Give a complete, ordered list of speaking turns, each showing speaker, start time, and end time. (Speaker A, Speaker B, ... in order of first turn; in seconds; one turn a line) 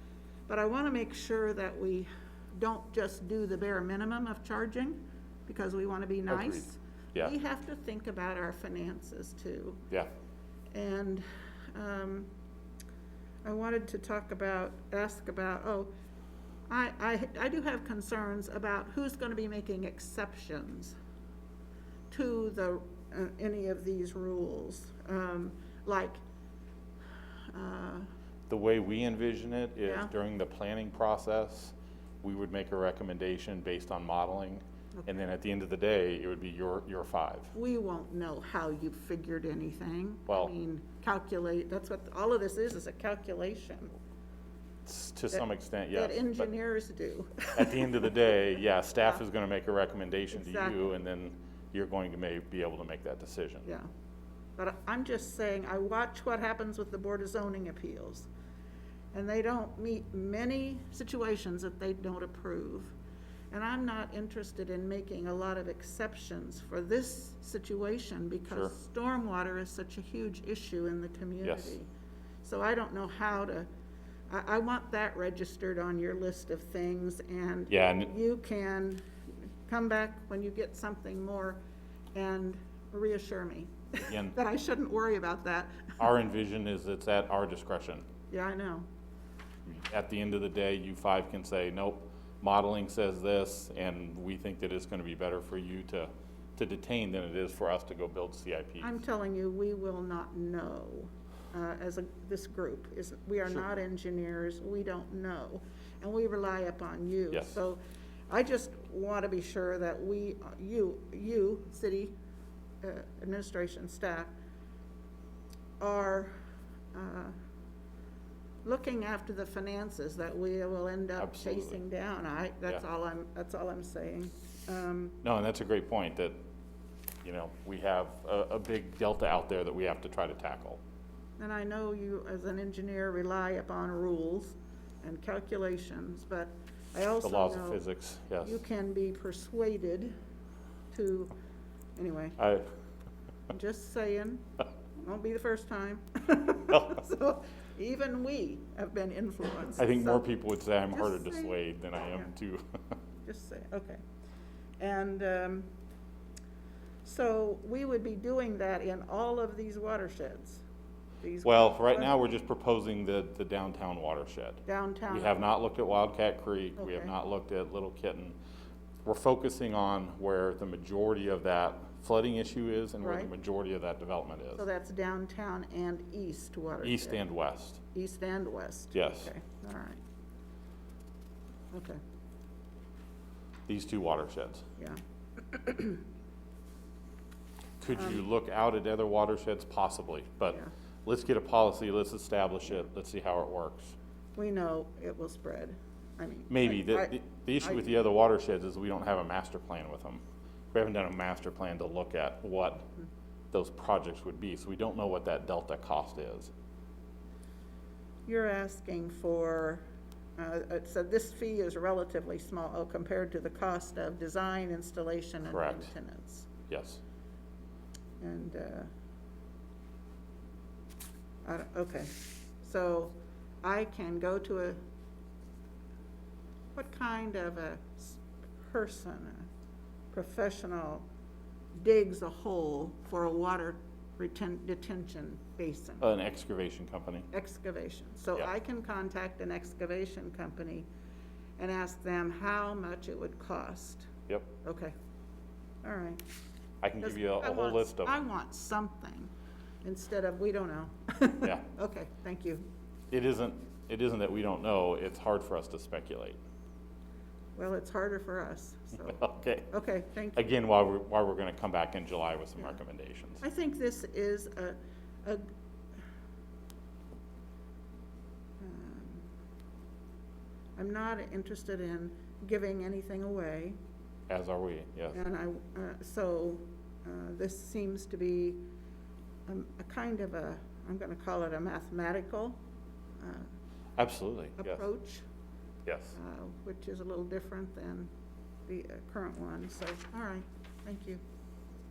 Speaker A: 0.5-9.9
Speaker B: 6.3-6.6
Speaker A: 10.7-12.3
Speaker A: 13.4-15.9
Speaker A: 16.7-20.9
Speaker A: 22.1-26.2
Speaker A: 27.5-28.1
Speaker B: 28.5-37.5
Speaker A: 29.8-30.1
Speaker A: 37.5-43.9
Speaker B: 44.9-46.5
Speaker A: 45.3-48.1
Speaker B: 47.5-53.6
Speaker A: 50.3-50.9
Speaker A: 54.6-58.3
Speaker A: 59.1-62.9
Speaker A: 63.5-71.9
Speaker B: 71.4-71.8
Speaker A: 72.4-73.7
Speaker A: 74.3-79.0
Speaker B: 77.7-78.1
Speaker A: 79.7-81.6
Speaker A: 82.1-86.0
Speaker B: 84.0-84.3
Speaker B: 86.0-88.0
Speaker A: 88.3-88.9
Speaker B: 89.7-99.0
Speaker A: 98.8-112.1
Speaker B: 107.3-107.6
Speaker A: 112.8-114.3
Speaker A: 115.8-116.3
Speaker A: 116.9-117.3
Speaker A: 118.6-125.2
Speaker B: 121.2-121.8
Speaker B: 125.2-126.4
Speaker B: 127.2-130.8
Speaker A: 131.4-137.8
Speaker B: 137.2-138.6
Speaker A: 138.4-140.1
Speaker A: 140.9-141.3
Speaker A: 141.9-142.4
Speaker B: 142.4-142.7
Speaker A: 143.5-150.2
Speaker B: 149.8-152.8
Speaker A: 150.9-151.6
Speaker A: 153.2-154.0
Speaker A: 154.8-155.7
Speaker A: 157.0-160.6
Speaker A: 161.2-162.1
Speaker B: 161.4-168.3
Speaker A: 164.7-165.5
Speaker A: 166.8-167.1
Speaker B: 169.0-174.6
Speaker A: 173.0-173.3
Speaker A: 174.6-177.2
Speaker B: 176.8-177.8
Speaker A: 177.9-180.0
Speaker B: 178.9-179.3
Speaker A: 181.7-182.0
Speaker B: 183.7-184.7
Speaker A: 184.8-186.0
Speaker B: 187.8-193.9
Speaker A: 187.9-188.2
Speaker A: 194.3-198.0
Speaker B: 196.5-200.2
Speaker B: 200.7-202.9
Speaker B: 203.5-206.5
Speaker A: 208.3-209.8
Speaker A: 210.4-216.5
Speaker B: 215.5-215.9
Speaker B: 216.7-217.0
Speaker A: 218.2-218.9
Speaker A: 221.4-224.8
Speaker A: 226.7-229.5
Speaker A: 230.1-231.1
Speaker A: 231.7-236.1
Speaker B: 236.0-237.3
Speaker A: 237.3-240.9
Speaker A: 241.6-244.1
Speaker A: 244.6-244.9
Speaker A: 245.8-246.2
Speaker B: 246.8-248.2
Speaker A: 247.0-249.3
Speaker A: 249.8-252.7
Speaker B: 253.1-256.4
Speaker A: 257.6-260.4
Speaker B: 259.0-259.7
Speaker B: 260.3-263.4
Speaker A: 263.4-265.5
Speaker A: 268.6-269.3
Speaker A: 270.8-273.8
Speaker B: 274.3-275.2
Speaker A: 275.1-278.7
Speaker A: 279.5-282.6
Speaker A: 283.2-283.5
Speaker B: 284.0-284.8
Speaker A: 284.6-285.2
Speaker B: 285.9-286.1
Speaker A: 286.1-288.1
Speaker A: 288.7-291.2